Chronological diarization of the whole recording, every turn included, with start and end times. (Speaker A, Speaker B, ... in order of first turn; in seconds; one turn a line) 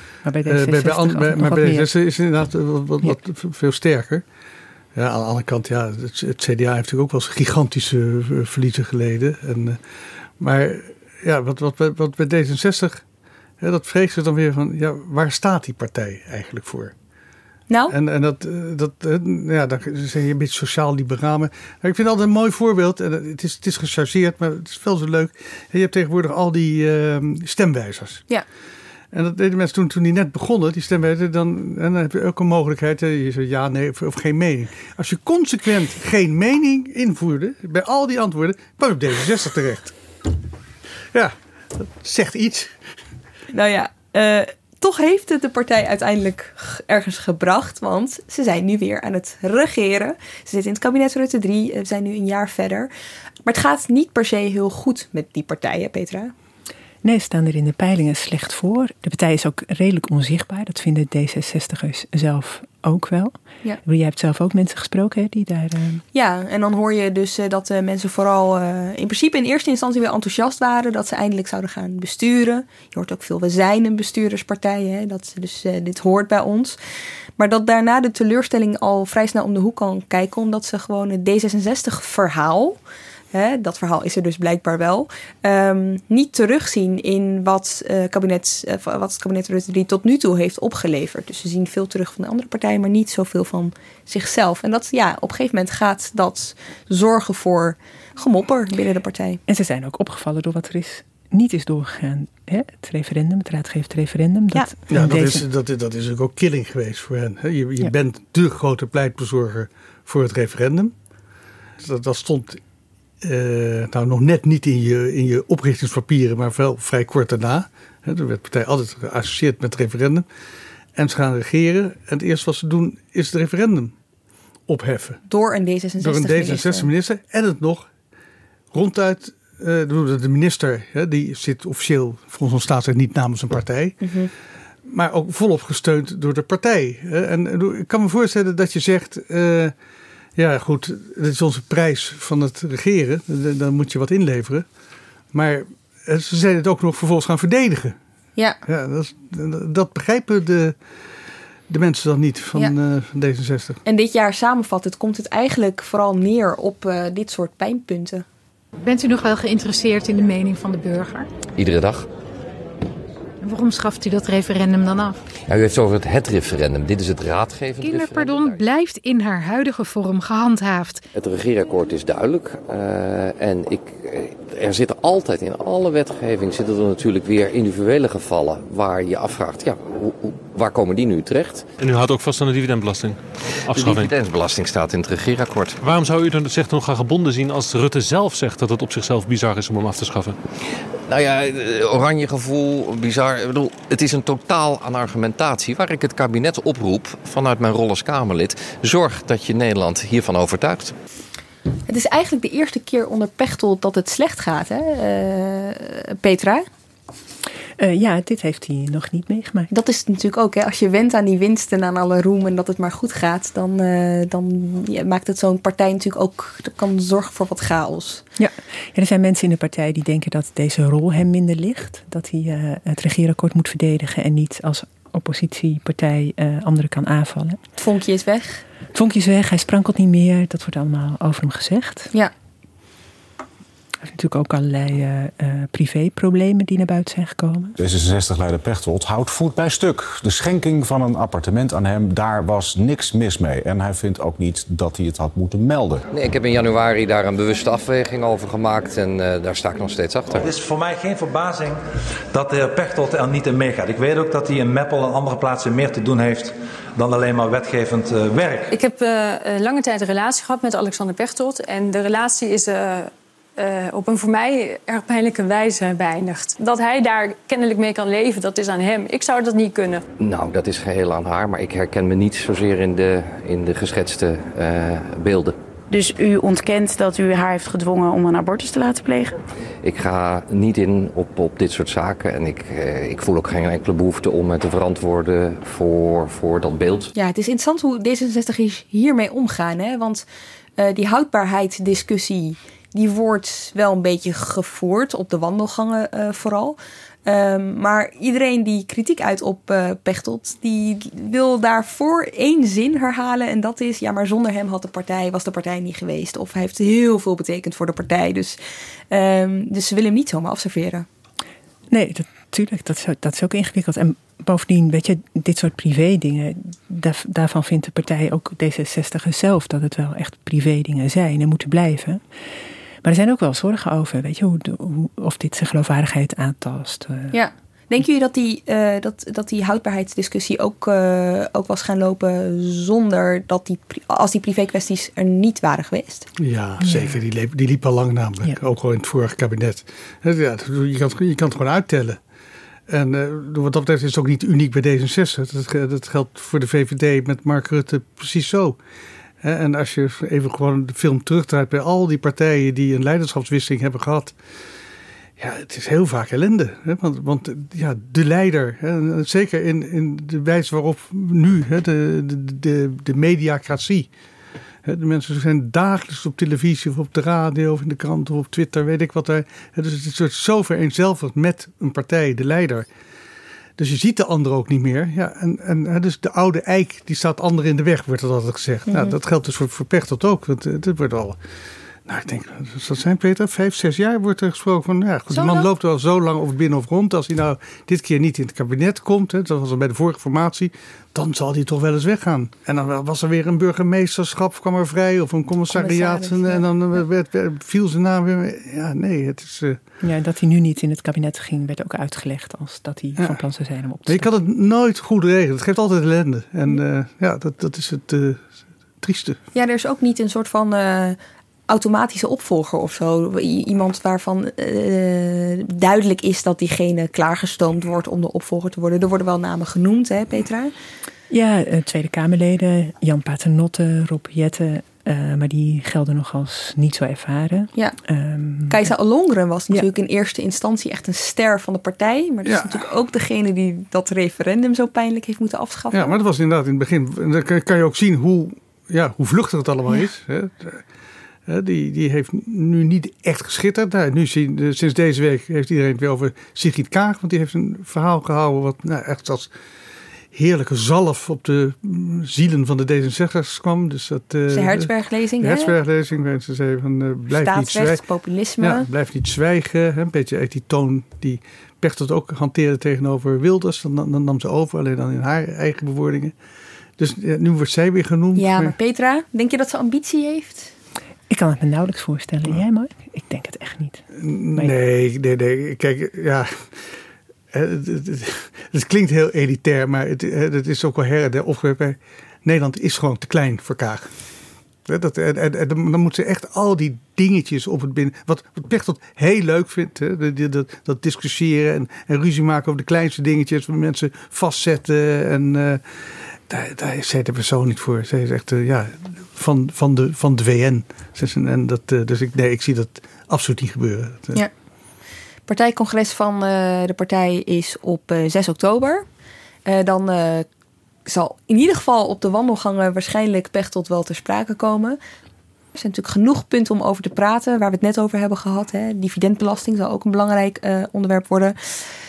Speaker A: 0.2-1.9
Speaker B: 0.5-4.2
Speaker B: 5.0-9.8
Speaker B: 10.4-13.0
Speaker B: 13.6-16.9
Speaker C: 17.7-17.9
Speaker B: 17.9-28.2
Speaker B: 29.1-40.0
Speaker B: 41.1-42.8
Speaker C: 43.5-52.9
Speaker C: 53.5-56.3
Speaker A: 57.0-66.0
Speaker C: 66.1-76.8
Speaker C: 77.4-82.8
Speaker C: 83.3-99.4
Speaker A: 99.5-105.4
Speaker B: 104.9-110.9
Speaker B: 111.8-112.6
Speaker B: 113.2-120.3
Speaker B: 121.0-123.9
Speaker B: 124.7-125.2
Speaker C: 125.3-126.9
Speaker B: 126.0-127.9
Speaker B: 128.7-134.0
Speaker C: 134.0-134.3
Speaker B: 134.9-139.7
Speaker B: 140.4-144.7
Speaker B: 145.3-148.0
Speaker B: 148.7-150.8
Speaker B: 151.7-153.8
Speaker C: 153.8-158.3
Speaker D: 158.8-161.3
Speaker E: 161.5-162.1
Speaker D: 163.4-165.2
Speaker E: 165.5-168.7
Speaker D: 167.8-171.1
Speaker E: 171.1-181.7
Speaker F: 181.8-184.1
Speaker E: 183.7-185.8
Speaker F: 185.8-190.4
Speaker E: 191.1-200.9
Speaker C: 201.9-206.7
Speaker A: 207.8-209.7
Speaker C: 209.7-218.2
Speaker A: 218.4-227.6
Speaker C: 227.8-228.6
Speaker A: 228.9-232.1
Speaker A: 234.0-237.8
Speaker G: 237.8-246.0
Speaker E: 246.1-250.5
Speaker H: 250.4-258.7
Speaker I: 258.7-270.0
Speaker E: 270.2-275.6
Speaker J: 275.9-279.3
Speaker E: 279.8-287.1
Speaker C: 287.1-290.2
Speaker C: 290.8-311.1
Speaker A: 311.9-322.2
Speaker A: 323.0-327.3
Speaker C: 327.3-336.3
Speaker B: 336.4-342.2
Speaker A: 336.8-337.1
Speaker B: 342.9-348.8
Speaker B: 349.4-354.4
Speaker B: 355.4-364.1
Speaker B: 364.9-372.9
Speaker B: 373.8-381.4
Speaker C: 378.9-379.1
Speaker B: 382.1-399.8
Speaker C: 385.3-385.7
Speaker C: 395.7-396.7
Speaker A: 400.0-404.3
Speaker B: 404.1-408.5
Speaker B: 409.0-409.4
Speaker C: 409.5-411.2
Speaker C: 411.7-420.7
Speaker A: 421.3-428.9
Speaker C: 428.7-436.1
Speaker B: 432.4-432.8
Speaker B: 435.9-440.9
Speaker B: 441.5-449.5
Speaker B: 450.3-458.0
Speaker C: 454.5-455.7
Speaker C: 457.3-458.9
Speaker B: 458.6-466.4
Speaker B: 467.0-468.8
Speaker C: 468.4-470.7
Speaker A: 471.3-474.0
Speaker B: 474.2-476.9
Speaker B: 477.5-484.1
Speaker B: 484.9-504.4
Speaker C: 505.5-509.1
Speaker C: 509.7-510.5
Speaker C: 511.1-515.0
Speaker C: 515.7-521.9